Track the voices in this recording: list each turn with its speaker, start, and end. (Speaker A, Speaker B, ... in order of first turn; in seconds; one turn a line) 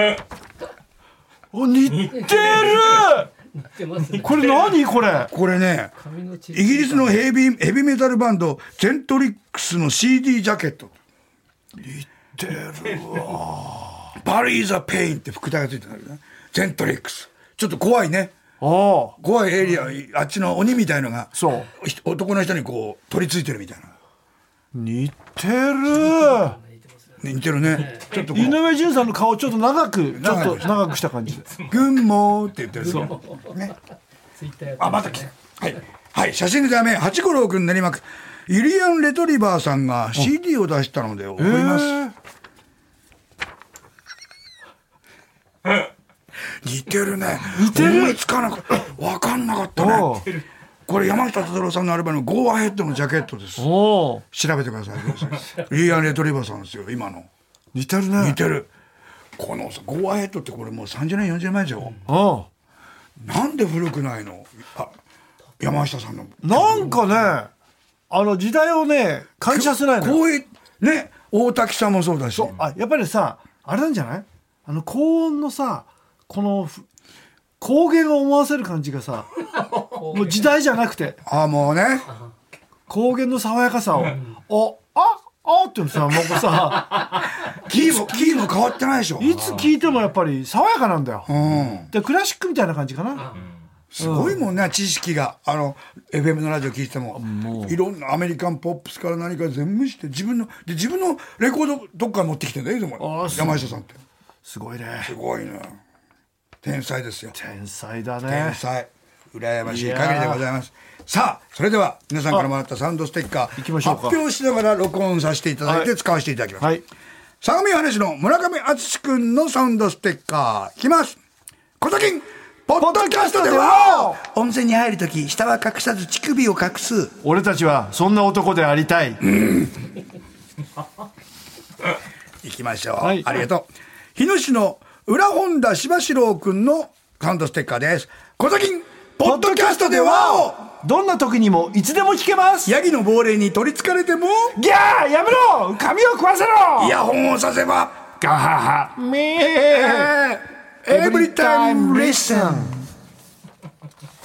Speaker A: 1.5-3.3
Speaker B: 2.1-4.7
Speaker A: 4.2-5.3
Speaker C: 5.2-5.9
Speaker B: 6.0-7.2
Speaker C: 6.5-10.9
Speaker A: 11.8-14.1
Speaker C: 14.2-18.4
Speaker A: 18.6-19.2
Speaker C: 19.2-23.9
Speaker A: 21.4-21.7
Speaker A: 24.7-26.6
Speaker B: 26.0-28.2
Speaker C: 27.2-28.6
Speaker A: 28.3-31.5
Speaker C: 30.1-30.7
Speaker C: 31.7-33.7
Speaker A: 32.8-33.1
Speaker B: 33.0-33.5
Speaker B: 34.3-35.3
Speaker C: 34.8-42.0
Speaker A: 41.4-42.1
Speaker C: 46.6-50.3
Speaker A: 47.5-48.2
Speaker A: 49.8-50.3
Speaker C: 50.9-53.7
Speaker A: 53.6-54.2
Speaker C: 54.3-57.3
Speaker A: 57.7-58.4
Speaker C: 58.2-58.7
Speaker C: 59.4-62.0
Speaker A: 62.1-62.5
Speaker C: 63.2-64.9
Speaker C: 65.6-67.0
Speaker A: 66.4-67.5
Speaker A: 68.1-70.2
Speaker C: 69.5-72.6
Speaker A: 72.3-76.8
Speaker A: 77.6-79.3
Speaker A: 79.9-81.2
Speaker B: 80.0-80.4
Speaker C: 81.3-82.1
Speaker A: 82.9-87.2
Speaker C: 87.5-89.5
Speaker A: 89.2-93.3
Speaker C: 91.3-91.9
Speaker C: 93.9-104.0
Speaker A: 94.0-94.4
Speaker A: 97.2-97.8
Speaker A: 103.0-103.8
Speaker A: 104.4-105.2
Speaker C: 105.0-105.8
Speaker C: 106.6-107.3
Speaker A: 107.3-108.6
Speaker C: 108.2-116.7
Speaker A: 109.7-110.5
Speaker A: 113.6-114.2
Speaker A: 115.7-115.9
Speaker C: 117.4-121.2
Speaker C: 121.8-127.2
Speaker A: 122.8-124.2
Speaker A: 127.2-129.3
Speaker C: 129.2-129.7
Speaker C: 132.4-140.7
Speaker A: 133.0-133.3
Speaker A: 139.2-142.7
Speaker C: 142.7-144.6
Speaker A: 144.6-146.9
Speaker C: 146.8-148.1
Speaker A: 148.2-150.2
Speaker C: 149.7-152.8
Speaker A: 150.8-152.8